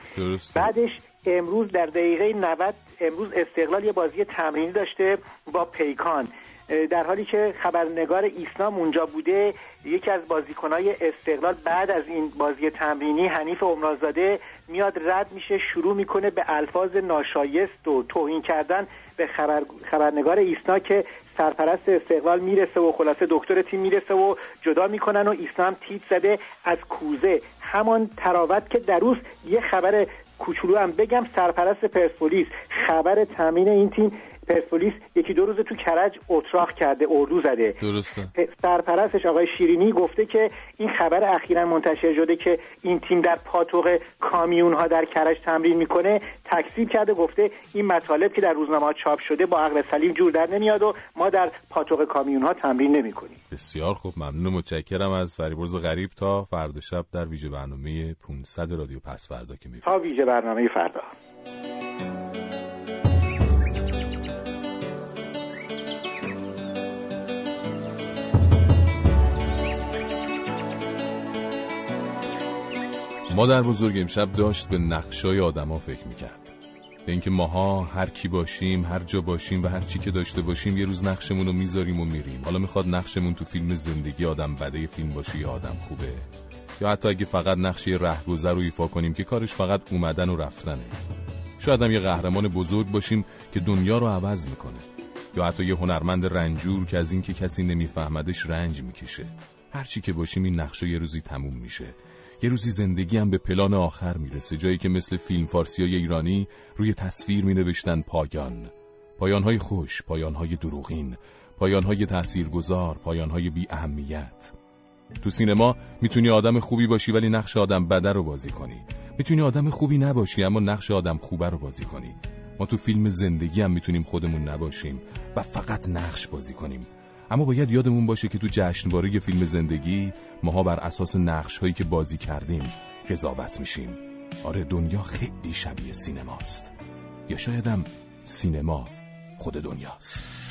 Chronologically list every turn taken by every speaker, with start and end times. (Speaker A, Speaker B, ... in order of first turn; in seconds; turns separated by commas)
Speaker A: 0.1-0.7, Speaker B: 0.5-37.8, Speaker A: 37.8-38.3, Speaker B: 38.4-53.4, Speaker A: 53.5-59.9, Speaker B: 59.8-61.1, Speaker A: 73.3-76.5, Speaker A: 77.0-86.2, Speaker A: 86.8-90.9, Speaker A: 91.6-114.5, Speaker A: 115.2-136.7, Speaker A: 137.3-140.2